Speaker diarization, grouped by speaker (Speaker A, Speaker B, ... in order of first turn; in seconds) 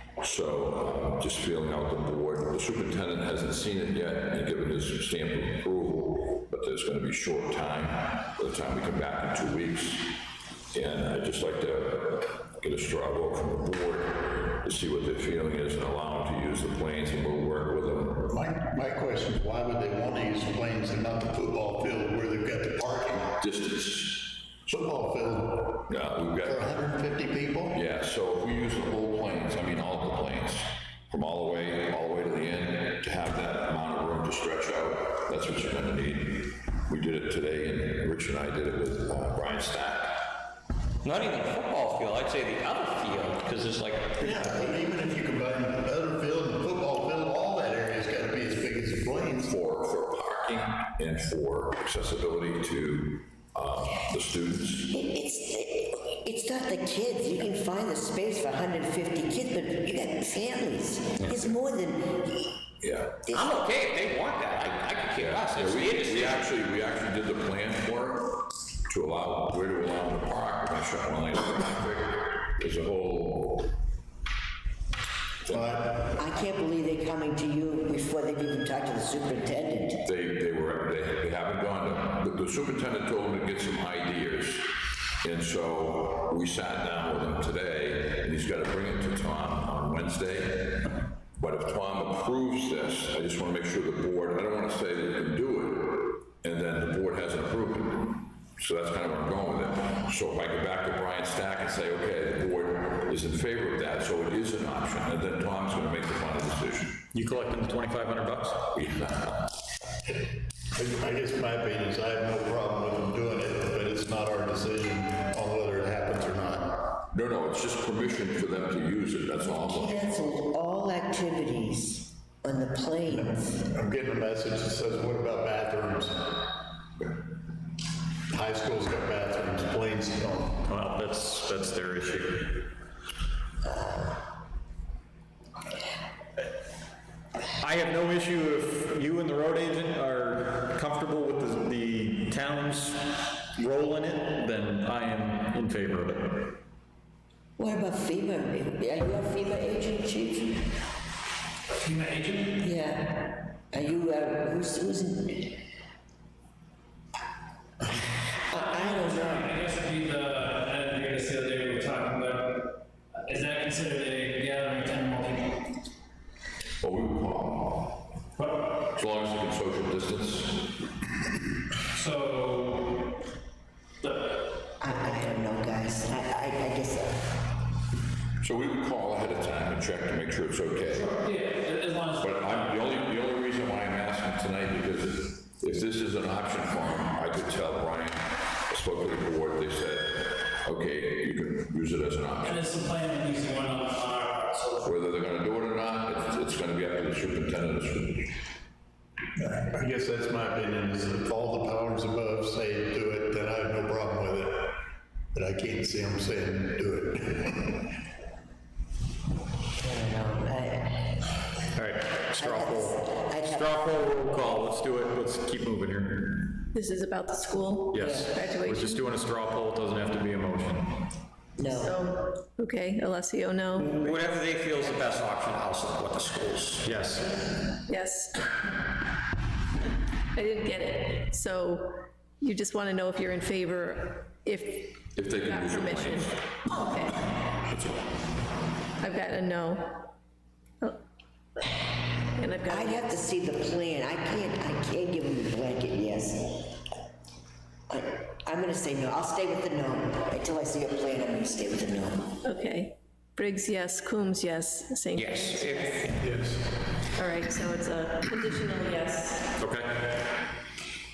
Speaker A: 0.2-18.3, 23.4-24.4, 25.9-26.6, 27.7-40.3, 49.4-55.0, 62.8-63.2, 65.1-73.7, 80.0-107.0, 108.7-109.5, 117.1-120.3, 166.8-168.0, 168.8-170.8, 178.4-181.1, 182.2-192.7, 194.8-198.3, 235.1-236.5, 237.7-238.0
Speaker B: 18.3-23.4, 24.6-25.9, 26.4-27.8, 44.2-49.5, 75.5-76.1, 110.7-116.9, 123.1-126.4, 128.3-130.6, 199.4-204.8, 205.3-207.9, 256.2-256.8
Speaker C: 41.0-44.3, 63.3-66.4, 223.8-226.8, 255.2-256.1
Speaker D: 54.9-62.6, 63.2-63.6, 76.2-80.0, 119.4-123.6, 147.6-150.7, 152.6-155.6, 158.5-159.5, 174.8-177.3, 209.8-211.2, 212.4-213.9, 218.0-218.2, 221.6-222.0, 242.7-246.8, 247.9-252.3
Speaker E: 107.1-108.6, 130.7-132.6, 137.6-146.5, 211.8-216.6, 217.9-221.0, 226.8-227.2, 259.6-260.1
Speaker F: 151.7-152.6, 158.5-162.7, 163.2-165.7, 168.4-168.7, 171.9-173.1, 174.0-174.4, 180.9-182.9, 192.4-194.9
Speaker G: 216.7-219.1, 221.7-224.2, 227.8-228.4, 230.3-237.2, 239.0-240.1, 242.3-243.2, 252.4-256.1, 257.1-259.5